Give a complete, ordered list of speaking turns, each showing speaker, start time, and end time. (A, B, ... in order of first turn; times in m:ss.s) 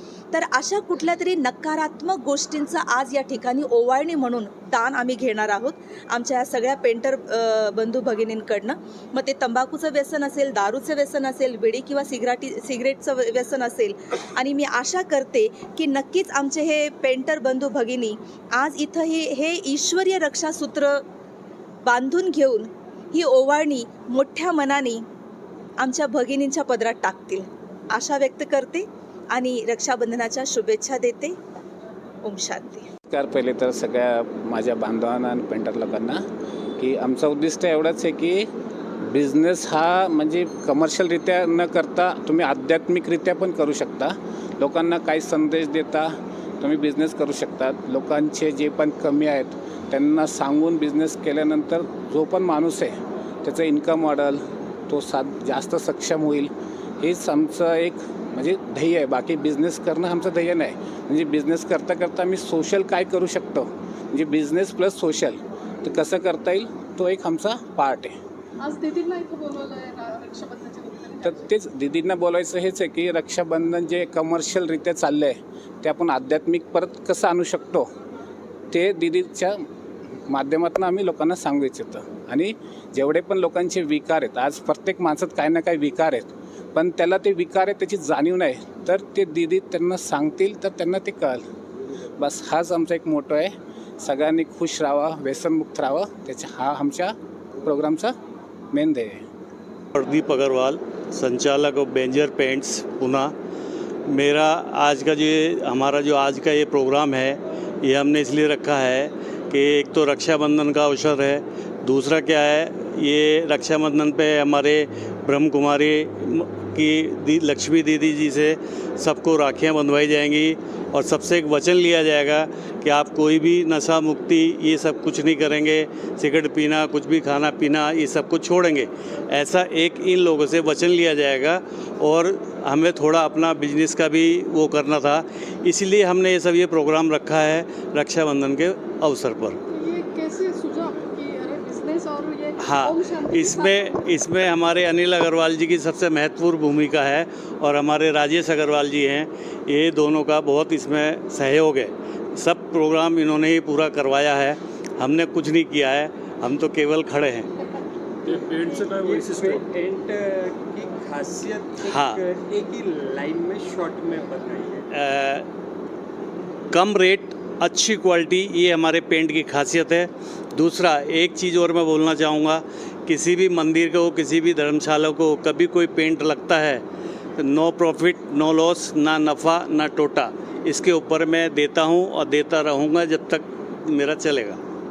0:00.3-0:21.0 A
0:21.8-0:25.0 A
0:25.8-0:31.4 A
0:32.2-0:32.9 A
0:33.1-0:36.2 B
0:36.8-0:38.5 B
0:39.1-1:08.2 B
1:08.6-1:11.4 C
1:11.2-1:17.9 B
1:18.7-1:19.6 B
1:20.3-1:31.4 B
1:32.2-1:38.2 B
1:38.7-1:39.2 B
1:40.0-1:43.3 D
1:44.1-2:19.6 D
2:19.7-2:24.2 C
2:22.6-2:37.5 D
2:38.2-2:44.9 E
2:38.6-2:38.9 C
2:41.9-2:42.2 D
2:45.0-2:45.5 D
2:46.7-2:56.8 D
2:57.4-3:04.6 D